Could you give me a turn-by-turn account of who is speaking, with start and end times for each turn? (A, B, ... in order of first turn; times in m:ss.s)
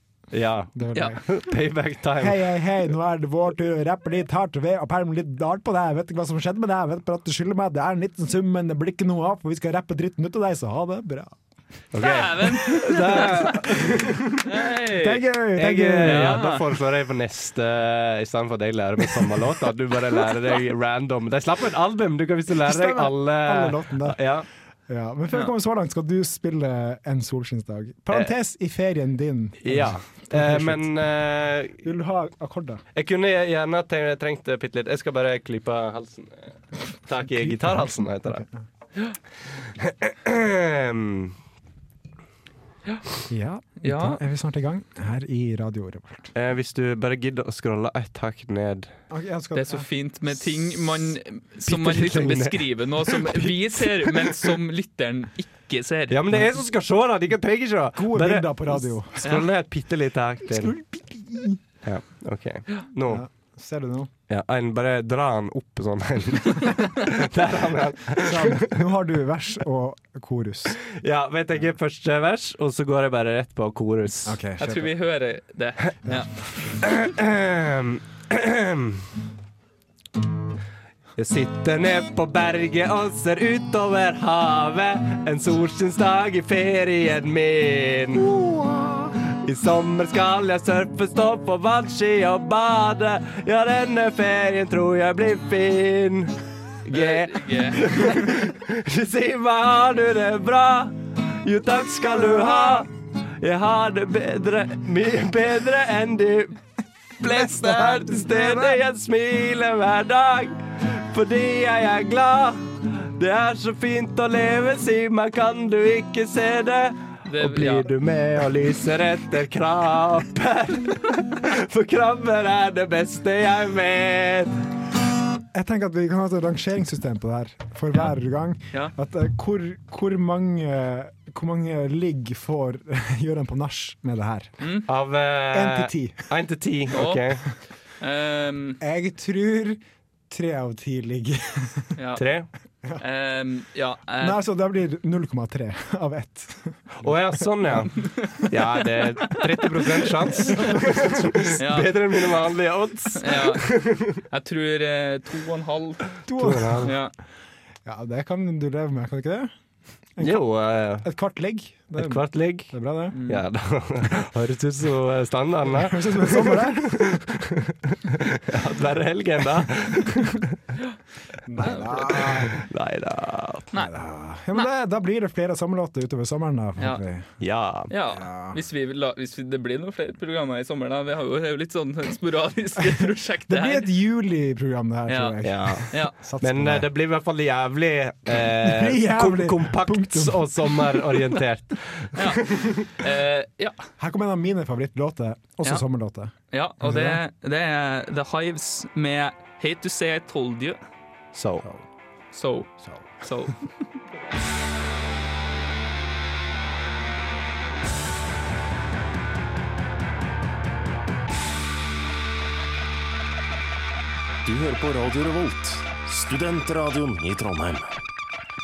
0:00.3-0:02.6 A
0:00.8-0:01.2 B
0:02.2-0:11.4 B
0:11.9-0:14.4 A
0:12.0-0:13.7 C
0:14.4-0:15.2 C
0:15.0-0:16.5 B
0:15.6-0:24.5 A
0:16.0-0:16.6 C
0:22.6-0:24.2 B
0:24.9-0:30.9 B
0:29.6-0:31.8 A
0:31.8-0:32.8 B
0:32.9-0:38.4 A
0:37.3-0:38.5 B
0:39.6-0:41.3 A
0:43.3-0:46.3 B
0:43.8-0:44.2 C
0:46.3-0:48.9 A
0:49.1-0:49.9 B
0:49.5-0:56.2 C
0:51.7-0:54.4 A
0:56.1-1:00.8 A
0:58.0-0:59.4 B
1:00.5-1:01.6 B
1:01.8-1:03.2 A
1:03.1-1:04.1 B
1:04.3-1:08.8 A
1:08.2-1:10.8 B
1:10.8-1:14.4 A
1:14.2-1:15.0 B
1:14.6-1:16.3 C
1:16.8-1:19.0 A
1:21.2-1:46.6 A
1:36.9-1:38.1 C
1:47.2-2:04.6 A
1:47.4-1:48.8 B
1:57.2-1:57.9 C
2:05.5-2:14.5 B
2:14.6-2:14.9 C
2:14.9-2:17.5 A
2:15.5-2:16.2 B
2:16.9-2:17.4 C
2:18.0-2:18.8 C
2:18.8-2:21.9 B
2:22.0-2:22.2 C
2:22.2-2:22.5 A
2:23.0-2:24.4 C
2:24.2-2:27.0 B
2:27.0-2:34.2 A
2:29.2-2:29.8 C
2:30.5-2:31.3 B
2:31.6-2:31.9 C
2:33.2-2:36.1 C
2:36.3-2:36.9 B
2:36.4-2:37.0 A
2:36.8-2:37.1 C
2:37.8-2:39.5 B
2:40.2-2:41.1 A
2:41.0-2:43.2 B
2:42.0-2:42.8 A
2:43.1-2:43.4 C
2:43.3-2:50.4 A
2:45.6-2:47.1 B
2:51.5-2:52.5 B
2:51.6-2:52.3 C
2:52.1-2:53.7 A
2:53.7-2:57.4 B
2:57.4-2:57.9 A
2:57.9-3:03.9 C
2:58.1-2:58.6 B
3:03.5-3:06.9 B
3:05.1-3:06.2 C
3:05.4-3:12.8 A
3:08.6-3:11.2 B
3:12.2-3:13.8 C
3:14.0-3:17.2 B
3:16.5-3:20.8 C
3:21.3-3:21.7 A
3:22.3-3:23.6 C
3:34.4-3:38.0 D